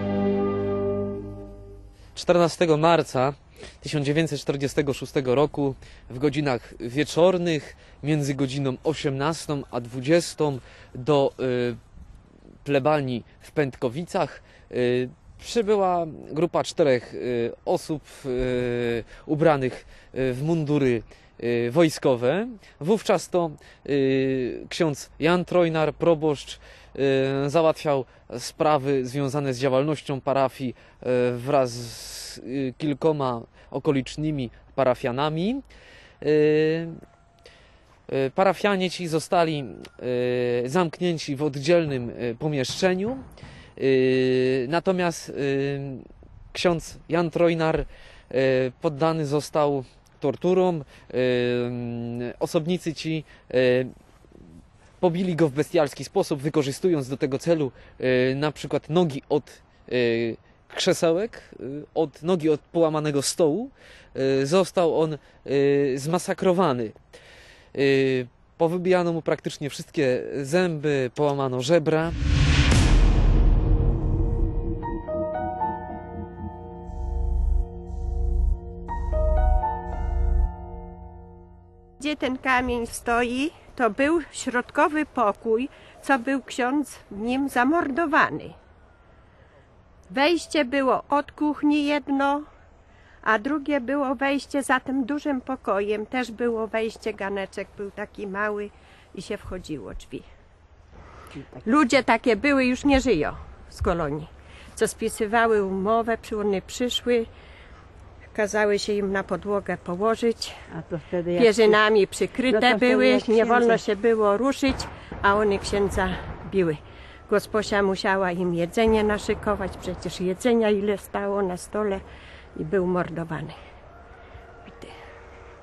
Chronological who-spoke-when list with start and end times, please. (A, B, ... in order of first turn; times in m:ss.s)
0:02.2-0:11.8 A
0:12.6-0:35.6 A
0:36.2-0:37.0 A
0:38.1-0:43.2 A
0:43.8-0:53.9 A
0:55.0-1:07.0 A
1:07.7-1:12.2 A
1:22.0-1:28.6 B
1:30.1-1:32.5 B
1:33.2-1:40.2 B
1:41.3-1:41.6 C
1:41.6-1:47.3 B
1:48.3-1:50.6 B
1:50.7-1:51.8 C
1:51.4-2:02.0 B
1:52.5-1:53.8 C
2:02.6-2:03.6 B
2:04.7-2:04.9 B